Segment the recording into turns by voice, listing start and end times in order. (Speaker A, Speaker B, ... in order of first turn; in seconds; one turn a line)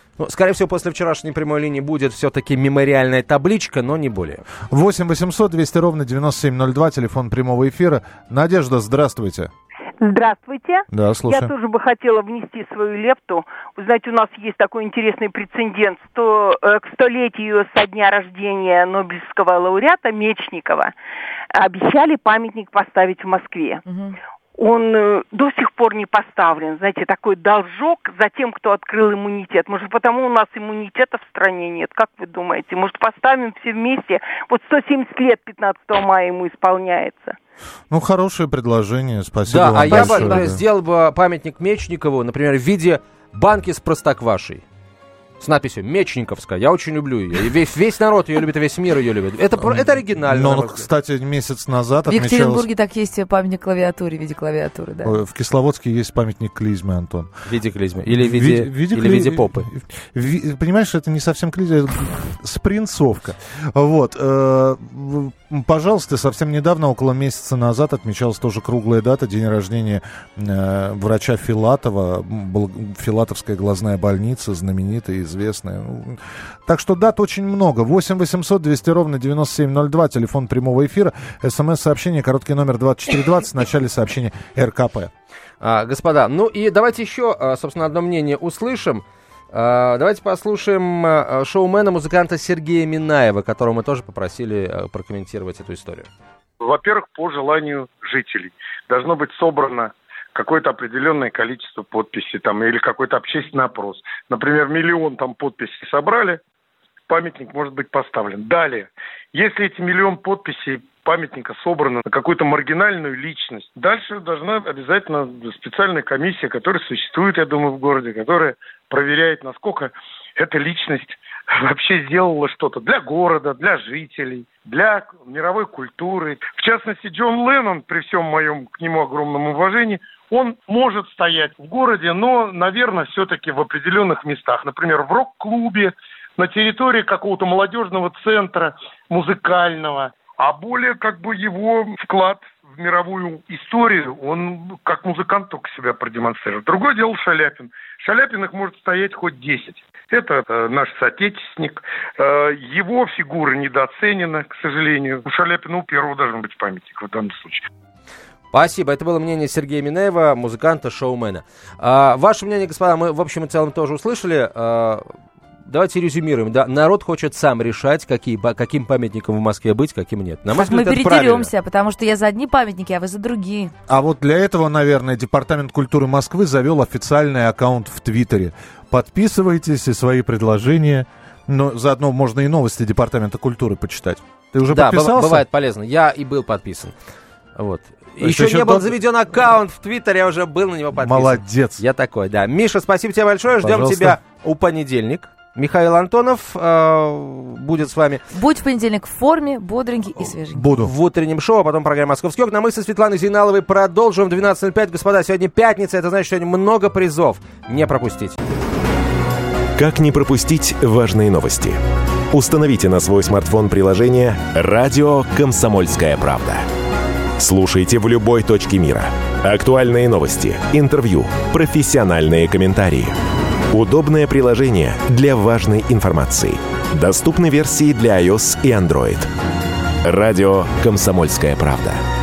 Speaker A: 0.2-4.4
Speaker B: 4.7-9.5
Speaker C: 10.0-20.9
Speaker B: 10.9-11.5
Speaker C: 21.5-23.8
Speaker D: 23.9-24.1
Speaker C: 24.6-37.4
Speaker B: 37.9-40.6
Speaker A: 39.5-44.6
Speaker D: 39.9-40.5
Speaker A: 45.4-50.9
Speaker B: 49.6-52.7
Speaker D: 52.0-55.1
Speaker B: 55.0-57.3
Speaker A: 57.5-59.7
Speaker B: 58.1-85.1
Speaker A: 85.6-96.1
Speaker E: 96.6-106.4
Speaker E: 107.1-157.7
Speaker A: 158.5-165.0
Speaker A: 165.7-171.5
Speaker D: 170.5-173.7
Speaker B: 173.9-185.4
Speaker A: 184.7-186.9
Speaker A: 187.6-198.2
Speaker B: 188.2-189.0
Speaker B: 190.9-191.8
Speaker B: 193.6-194.2
Speaker D: 198.3-200.7
Speaker B: 200.5-200.9
Speaker A: 200.7-208.3
Speaker F: 209.8-211.8
Speaker F: 212.3-216.6
Speaker F: 217.4-223.1
Speaker F: 223.7-229.3
Speaker F: 230.0-232.0